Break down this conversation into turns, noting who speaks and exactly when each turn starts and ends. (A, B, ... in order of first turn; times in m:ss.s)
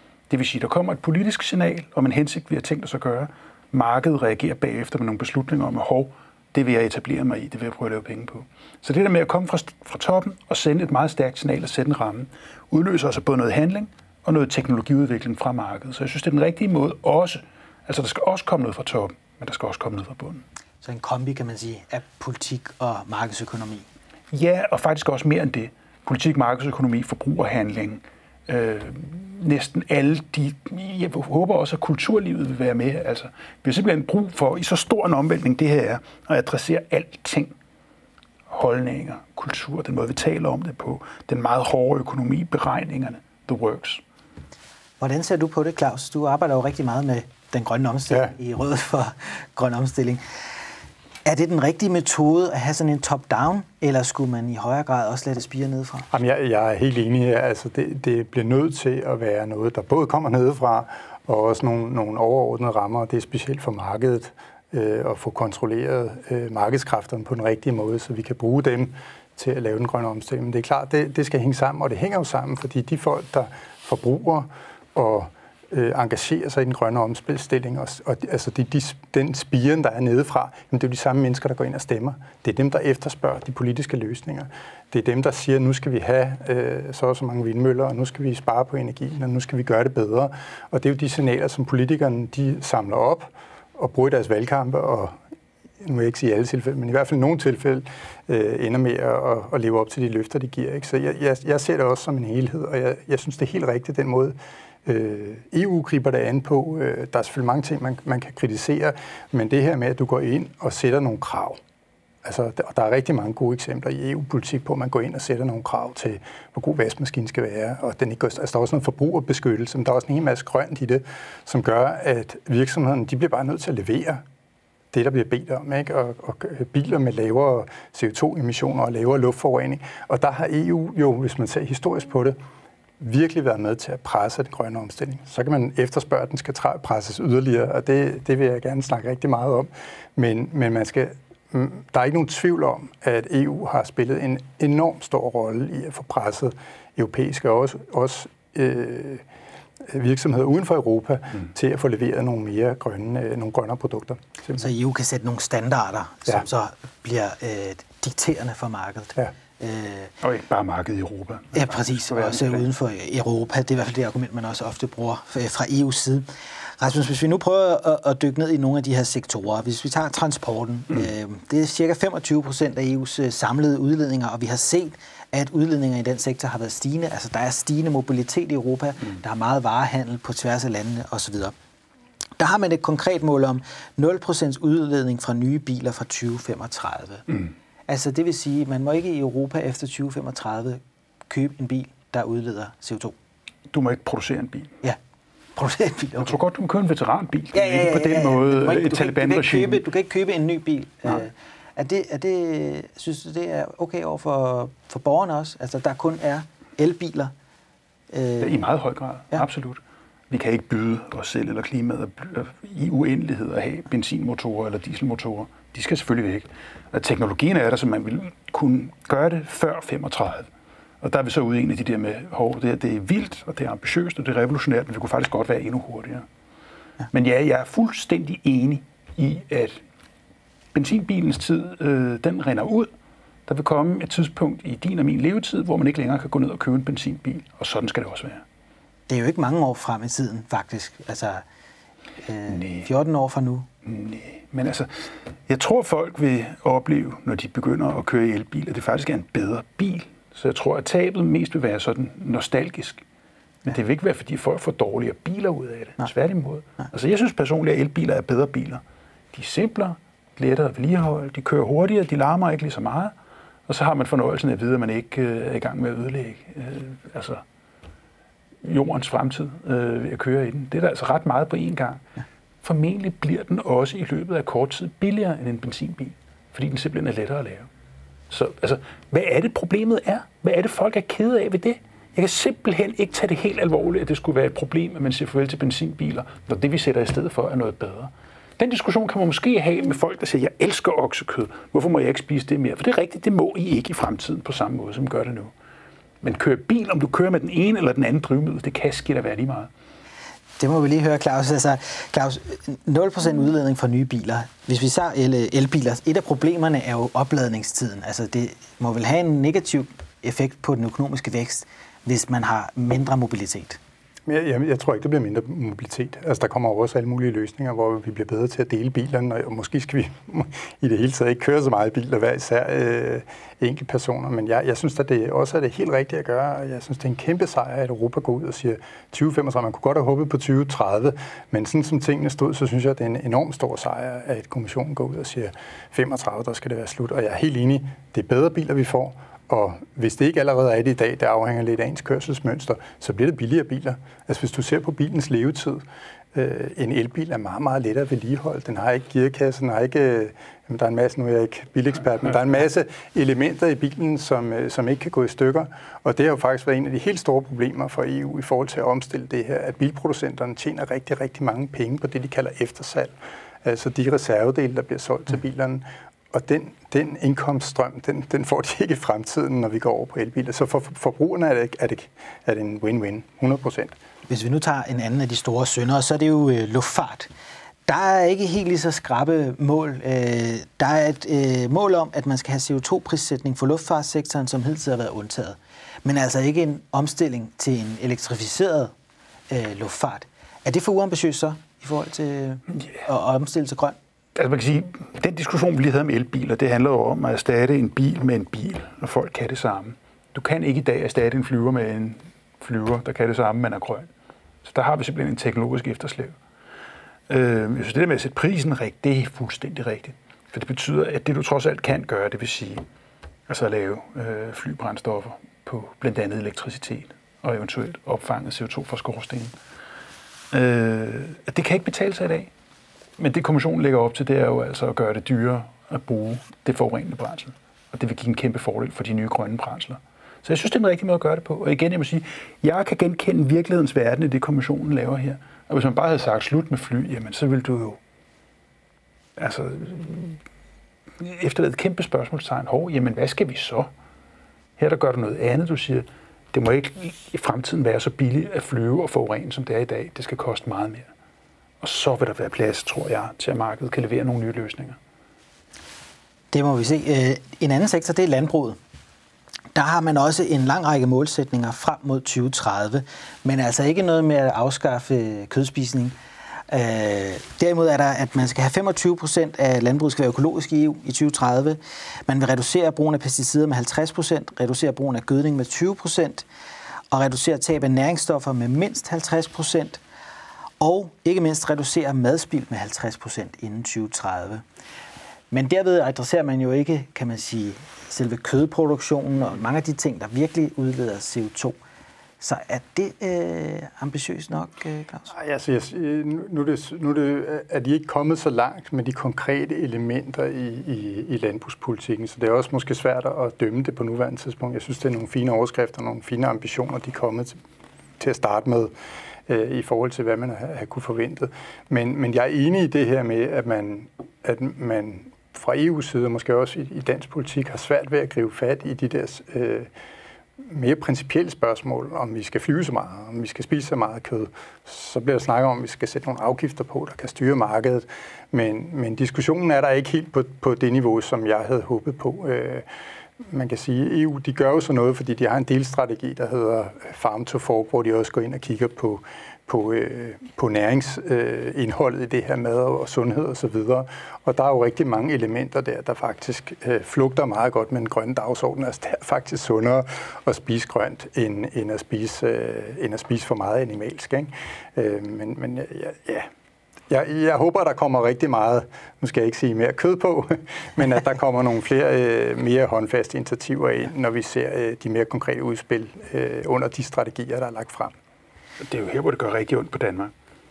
0:00.3-0:20.4 A
0:20.8-0:23.8 B
0:24.3-0:37.5 A
0:38.5-0:44.0 A
0:45.0-0:50.2 B
0:51.2-0:56.1 B
0:56.1-1:35.1 C
1:35.8-1:51.6 C
1:52.2-2:04.2 C
2:04.9-2:12.4 C
2:13.0-2:29.2 C
2:29.8-2:34.6 C
2:34.6-2:40.1 B
2:40.2-2:42.7 A
2:41.5-3:01.5 B
3:02.4-3:07.2 B
3:07.9-3:13.1 B
3:13.7-3:14.7 A
3:15.6-3:16.4 B
3:16.2-3:19.8 A
3:17.5-3:27.3 B
3:28.1-3:28.6 B
3:28.4-3:40.5 A
3:41.0-3:46.2 A
3:47.1-3:49.8 A
3:50.7-3:52.9 A
3:53.5-3:58.4 A
3:59.1-4:01.4 B
4:02.2-4:03.7 B
4:02.5-4:02.9 A
4:03.8-4:13.0 A
4:13.6-4:18.8 A
4:19.3-4:23.1 A
4:23.7-4:27.4 A
4:28.6-4:32.0 A
4:32.6-4:37.7 A
4:38.3-4:55.5 A
4:56.2-4:59.7 A
5:00.6-5:13.8 B
5:14.2-5:45.8 C
5:46.3-6:13.9 C
6:14.3-6:17.3 B
6:17.9-6:28.9 B
6:29.5-6:34.0 B
6:34.3-6:44.1 A
6:44.6-6:46.3 A
6:47.3-6:52.8 A
6:53.5-6:59.5 A
7:00.5-7:02.5 A
7:03.2-7:18.0 A
7:19.4-7:20.4 A
7:21.2-7:23.9 A
7:24.8-7:31.1 A
7:31.8-7:35.0 A
7:36.5-7:38.8 B
7:39.7-7:46.1 B
7:46.7-7:56.4 B
7:57.1-8:00.0 B
8:00.8-8:04.6 B
8:05.5-8:11.8 B
8:12.4-8:15.3 B
8:15.3-8:27.6 C
8:28.2-8:28.9 C
8:29.5-8:39.9 C
8:40.6-8:52.9 C
8:53.4-9:16.5 C
9:17.1-9:28.1 C
9:28.8-9:30.3 A